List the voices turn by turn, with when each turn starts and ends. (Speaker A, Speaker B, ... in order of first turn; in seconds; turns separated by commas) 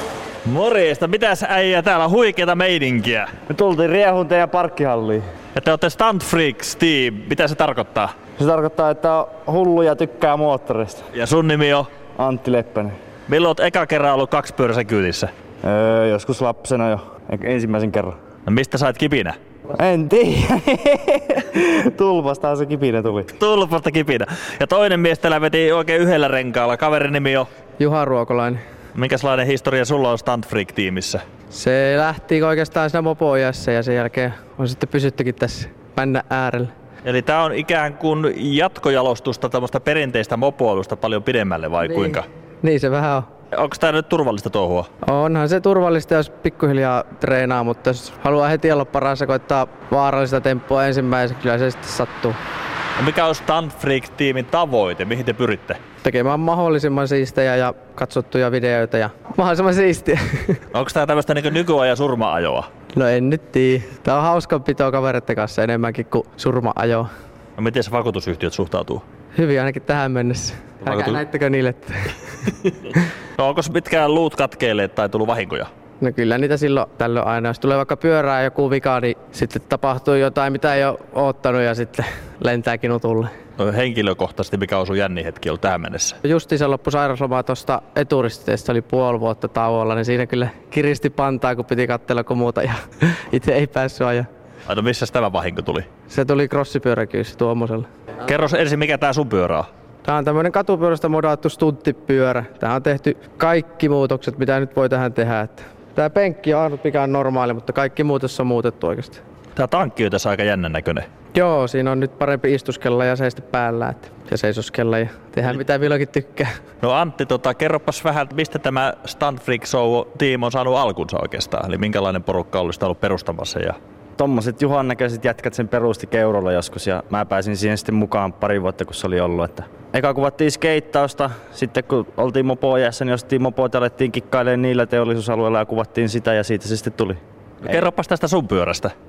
Speaker A: 0.4-3.3, Speaker B: 3.5-5.2, Speaker A: 5.5-8.1, Speaker B: 8.4-11.1, Speaker A: 11.1-11.9, Speaker B: 12.2-12.9, Speaker A: 13.3-15.3, Speaker B: 15.6-18.1, Speaker A: 18.4-19.4, Speaker B: 19.7-23.3, Speaker A: 23.4-27.5, Speaker C: 27.8-28.6, Speaker A: 28.9-31.2, Speaker C: 31.5-36.7, Speaker A: 37.0-42.2, Speaker C: 41.9-43.3, Speaker A: 43.5-44.9, Speaker C: 45.0-52.4, Speaker A: 53.0-55.8, Speaker C: 56.0-60.6, Speaker A: 60.7-62.7, Speaker C: 62.9-67.1, Speaker A: 67.6-69.0, Speaker C: 69.3-72.9, Speaker A: 70.8-71.2, Speaker A: 73.4-75.7, Speaker C: 76.0-83.3, Speaker A: 83.6-86.2, Speaker C: 86.2-94.3, Speaker A: 94.7-95.9, Speaker C: 96.1-97.9, Speaker A: 98.2-99.7, Speaker C: 100.0-109.2, Speaker A: 109.5-111.0, Speaker C: 111.3-116.5, Speaker A: 116.8-123.8, Speaker B: 124.2-137.2, Speaker A: 137.6-138.9